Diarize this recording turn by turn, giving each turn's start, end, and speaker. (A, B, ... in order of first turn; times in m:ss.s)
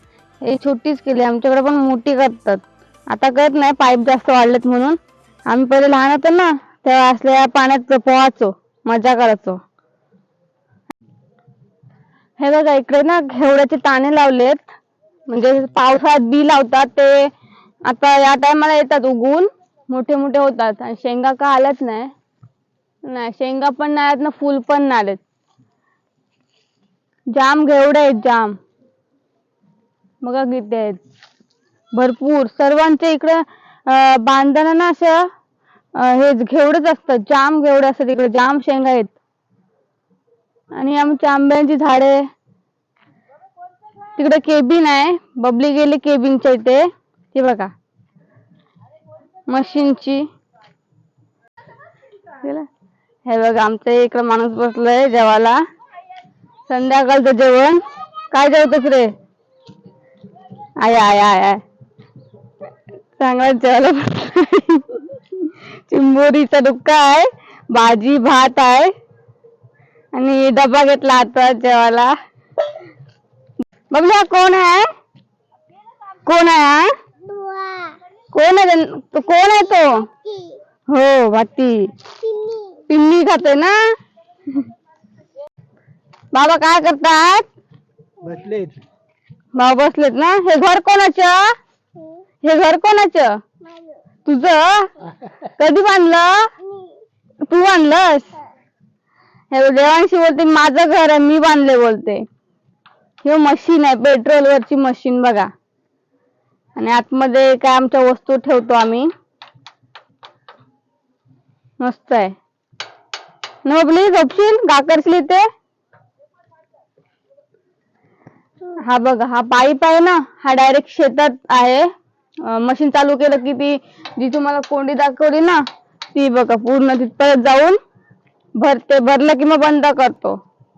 0:00.4-0:09.6 A
0:12.4-0:14.8 A
0:15.3-0:17.3 A
0:17.8-0:22.1 A
0:23.1-0:25.2 A
0:27.3-0:28.6 A
0:30.2-0:31.0 A
0:31.9-0:35.3 A
0:36.0-0:39.2 A
0:40.7-0:42.3 A
0:44.1-0:47.7 A
0:49.5-0:50.3 A
0:52.3-0:52.7 A
0:53.2-0:55.6 A
0:56.7-0:59.1 A
1:00.8-1:01.6 A
1:03.2-1:08.9 A
1:10.1-1:12.1 A
1:13.9-1:14.9 A
1:16.2-1:16.9 A
1:17.2-1:18.0 B
1:18.3-1:20.1 A
1:20.1-1:20.6 B
1:20.9-1:21.9 A
1:22.2-1:22.8 B
1:22.9-1:23.8 A
1:26.3-1:27.5 A
1:28.2-1:28.6 B
1:29.5-1:31.5 A
1:32.4-1:33.4 A
1:33.6-1:34.0 B
1:34.2-1:34.9 A
1:35.6-1:36.5 A
1:36.7-1:37.0 B
1:37.4-1:38.4 A
1:39.5-1:42.2 A
1:43.2-1:45.5 A
1:46.8-1:49.1 A
1:51.8-1:52.4 A
1:53.6-1:55.5 A
1:58.7-2:01.9 A
2:02.4-2:07.8 A
2:08.6-2:10.4 A